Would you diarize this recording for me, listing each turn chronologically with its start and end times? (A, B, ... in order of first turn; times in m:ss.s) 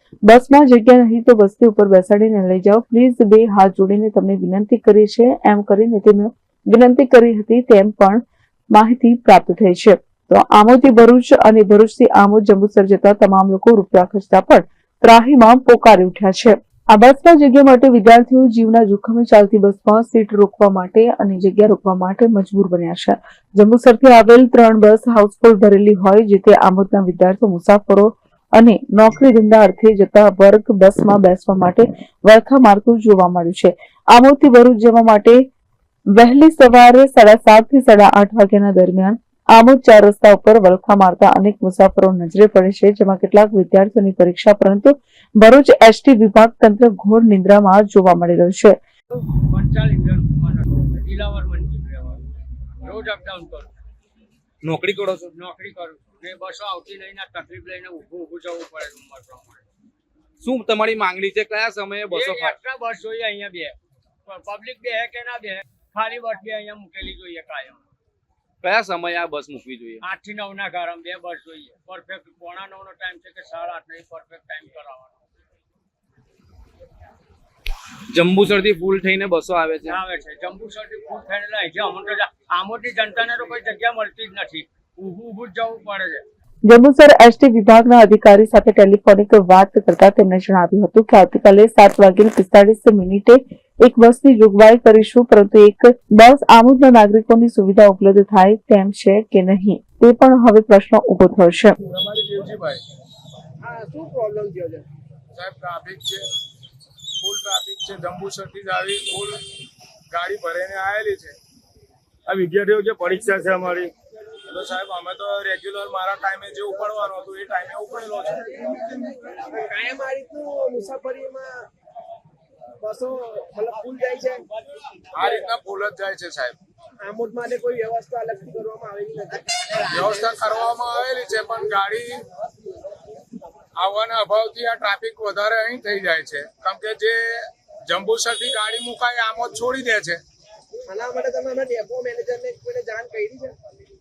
0:00.2-0:35.4 A
0:36.1-0:48.8 A
0:49.3-0:52.2 B
0:52.8-0:53.7 B
0:54.6-0:55.3 C
0:55.3-0:59.6 B
1:00.4-1:02.6 C
1:02.1-1:07.8 B
1:08.6-1:10.0 C
1:10.0-1:15.2 B
1:18.1-1:20.0 C
1:19.8-1:26.2 B
1:26.6-1:41.8 A
1:41.8-1:42.8 D
1:43.6-1:44.9 E
1:45.3-1:46.3 D
1:47.2-1:49.5 D
1:50.1-1:51.4 D
1:52.3-1:53.9 C
1:52.4-1:53.9 D
1:54.5-1:59.1 D
1:59.2-2:01.7 E
2:02.8-2:04.4 E
2:05.1-2:06.6 D
2:07.0-2:10.4 E
2:09.8-2:12.2 D
2:13.8-2:20.2 D
2:20.9-2:23.6 E